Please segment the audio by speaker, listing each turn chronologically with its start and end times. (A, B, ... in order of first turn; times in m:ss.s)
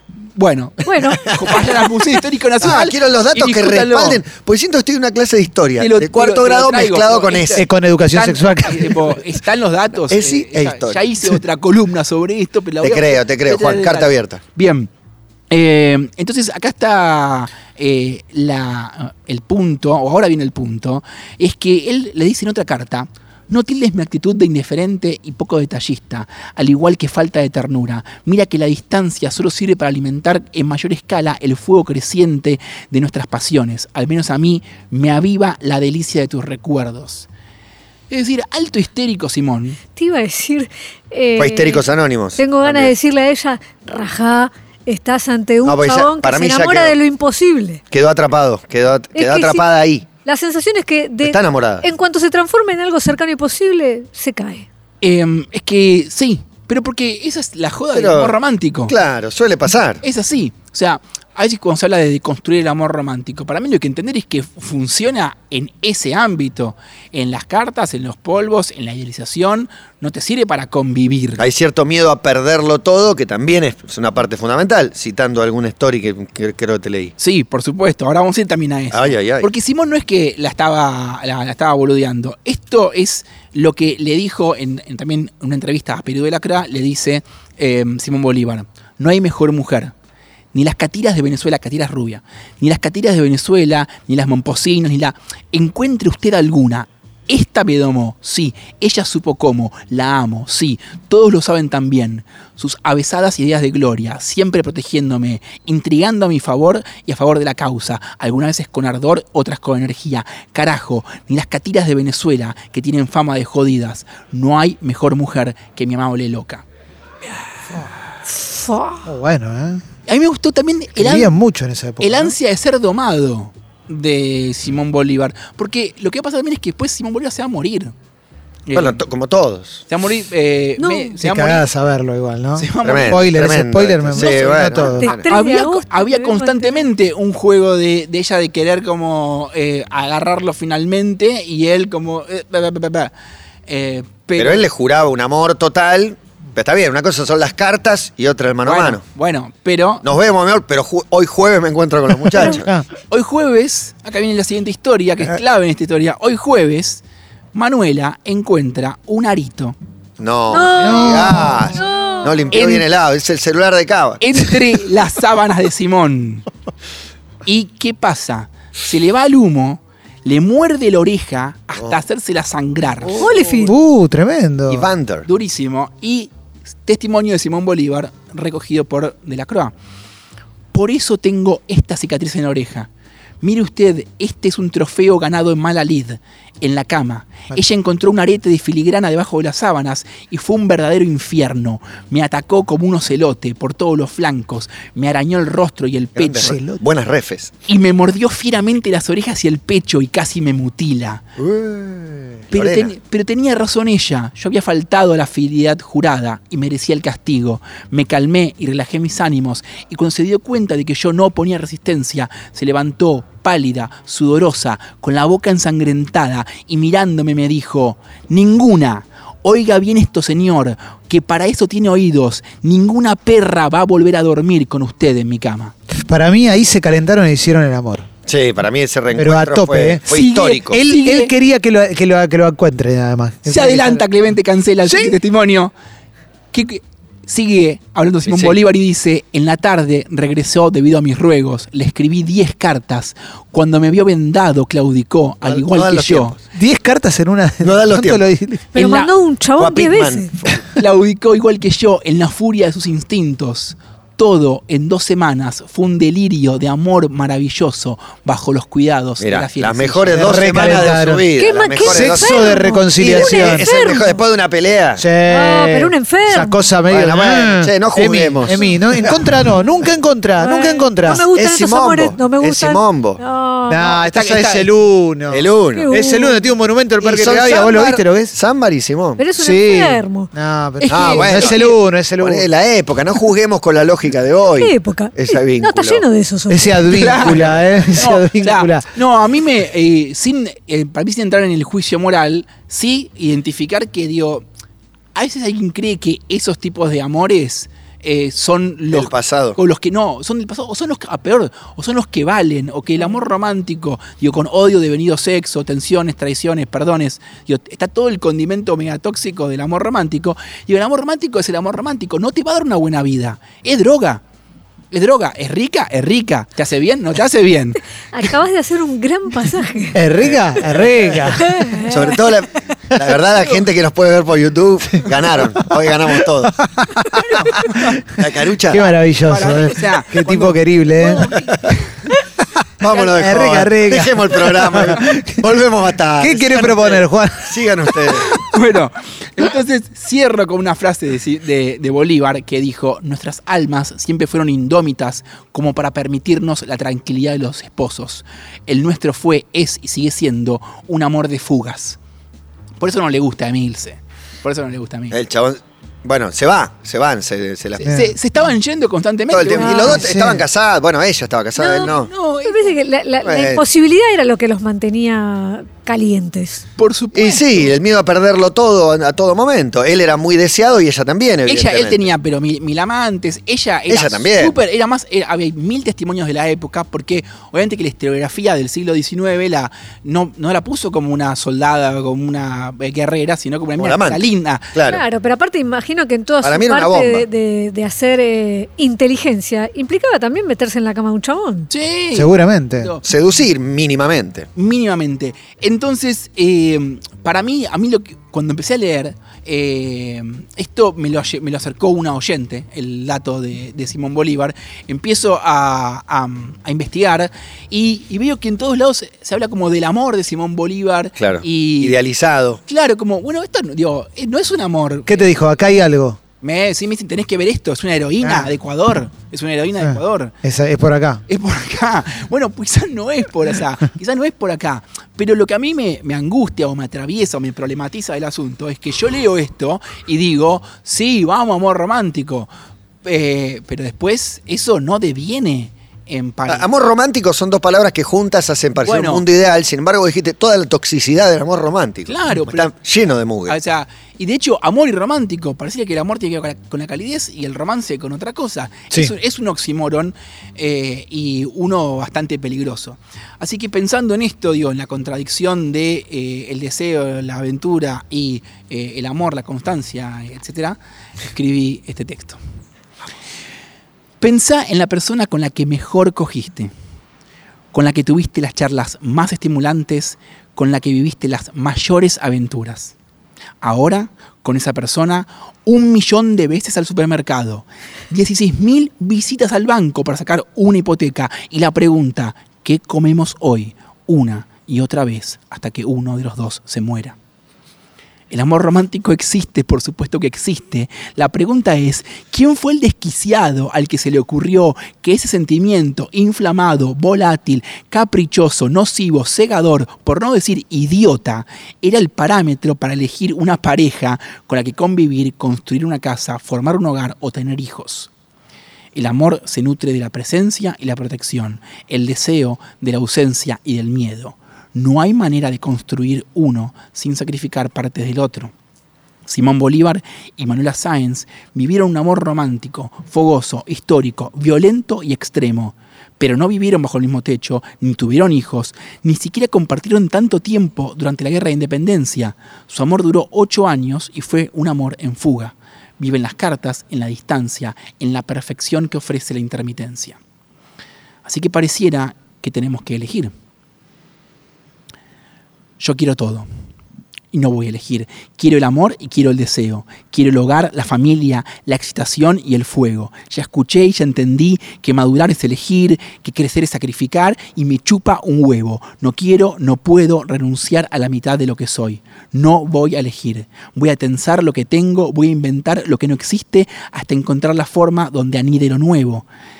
0:00.4-0:04.2 A
0:00.9-0:01.4 B
0:01.1-0:01.9 C
0:02.6-0:07.6 C
0:05.8-0:14.9 A
0:07.6-0:09.2 D
0:10.1-0:11.4 C
0:12.8-0:14.4 C
0:15.5-0:37.3 A
0:38.1-0:39.8 A
0:40.0-0:47.8 B
0:41.4-0:42.9 C
0:45.6-0:46.9 C
0:47.9-0:50.0 C
0:49.1-0:49.6 B
0:50.2-0:54.6 B
0:51.2-0:51.9 C
0:55.0-0:58.9 A
0:57.9-0:58.4 C
0:58.9-1:00.0 C
1:00.0-1:11.4 A
1:11.4-1:17.1 C
1:17.2-1:29.9 A
1:18.9-1:19.5 C
1:30.5-1:56.6 A
1:58.4-1:59.1 B
1:59.0-1:59.8 D
2:00.1-2:01.4 A
2:01.0-2:02.4 D
2:02.0-2:07.9 A
2:08.7-2:09.0 A
2:08.7-2:09.8 C
2:09.9-2:11.7 A
2:10.8-2:11.2 B
2:11.2-2:15.2 D
2:12.6-2:13.3 A
2:12.8-2:15.3 C
2:14.8-2:16.9 B
2:15.3-2:23.1 A
2:23.7-2:24.6 A
2:24.4-2:29.0 C
2:28.6-2:30.0 A
2:30.0-2:32.7 C
2:32.4-2:32.8 D
2:33.1-2:37.0 A
2:37.5-2:39.8 A
2:40.2-2:44.2 C
2:40.5-2:42.4 B
2:40.8-2:41.8 D
2:42.5-2:42.8 A
2:44.2-2:46.4 A
2:47.4-2:53.4 A
2:53.2-2:53.7 B
2:53.6-2:54.9 D
2:54.7-2:55.3 C
2:55.2-2:56.3 A
2:56.8-2:59.7 A
3:00.7-3:02.9 A
3:03.4-3:16.6 A
3:16.2-3:17.5 C
3:16.4-3:16.8 D
3:17.7-3:21.2 A
3:21.4-3:22.9 C
3:22.5-3:45.7 A
3:45.9-3:48.1 D
3:48.2-3:50.8 C
3:49.1-3:50.0 D
3:50.1-3:51.3 A
3:50.7-3:54.0 D
3:53.4-3:55.7 A
3:54.8-3:55.2 D
3:56.5-4:06.4 A
3:58.2-3:58.6 C
4:05.4-4:06.4 C
4:06.5-4:08.7 D
4:07.6-4:08.2 C
4:08.7-4:10.3 B
4:08.7-4:09.1 A
4:09.6-4:10.8 C
4:10.8-4:20.8 A
4:19.2-4:25.0 C
4:20.1-4:21.3 D
4:21.4-4:24.2 B
4:21.8-4:23.7 D
4:25.0-4:31.2 D
4:25.2-4:26.7 B
4:26.9-4:29.2 C
4:30.4-4:34.0 B
4:31.1-4:33.2 C
4:33.7-4:38.3 D
4:33.8-4:34.7 A
4:35.3-4:35.9 C
4:35.7-4:36.4 B
4:37.0-4:39.2 C
4:39.2-4:40.3 B
4:39.4-4:42.5 D
4:40.8-4:41.7 A
4:40.9-4:46.0 C
4:44.4-4:47.2 B
4:46.5-4:48.9 D
4:46.9-4:54.4 A
4:55.1-5:14.2 A
4:58.9-4:59.6 C
5:14.9-5:17.8 A
5:18.1-5:20.0 B
5:19.9-5:21.8 D
5:20.2-5:20.8 C
5:21.3-5:22.2 B
5:21.8-5:26.6 C
5:26.6-5:27.7 D
5:27.4-5:28.9 C
5:28.7-5:31.4 D
5:29.2-5:31.9 A
5:32.8-5:38.4 C
5:32.9-5:33.4 A
5:33.1-5:35.5 D
5:36.2-5:38.1 D
5:38.2-5:52.0 A
5:52.8-5:55.2 A
5:55.1-5:58.0 C
5:57.8-6:00.0 A
5:57.8-5:58.1 D
5:59.3-6:02.1 C
5:59.5-6:00.0 B
5:59.9-6:00.4 D
6:01.6-6:02.8 A
6:02.4-6:06.6 B
6:03.2-6:03.6 C
6:06.8-6:07.7 A
6:07.1-6:12.1 C
6:11.5-6:24.8 A
6:13.9-6:14.6 C
6:23.8-6:25.0 C
6:24.9-6:31.7 B
6:26.4-6:27.2 C
6:31.7-6:33.1 A
6:32.1-6:32.9 D
6:33.0-6:34.5 C
6:34.6-6:52.0 A
6:51.2-6:52.6 C
6:52.7-6:55.4 A
6:55.1-6:56.2 D
6:56.4-7:00.3 A
6:58.2-6:58.5 D
6:59.8-7:01.2 D
7:01.3-7:12.5 A
7:13.0-7:16.7 A
7:16.5-7:23.6 C
7:18.8-7:19.2 A
7:22.1-7:22.7 A
7:23.5-7:42.4 A
7:44.2-7:46.7 A
7:47.7-7:52.9 A
7:53.6-8:07.2 A
8:08.3-8:28.1 A
8:28.9-8:38.5 A
8:39.3-9:00.2 A
9:01.2-9:03.3 A
9:05.8-9:06.5 A
9:07.3-9:29.2 A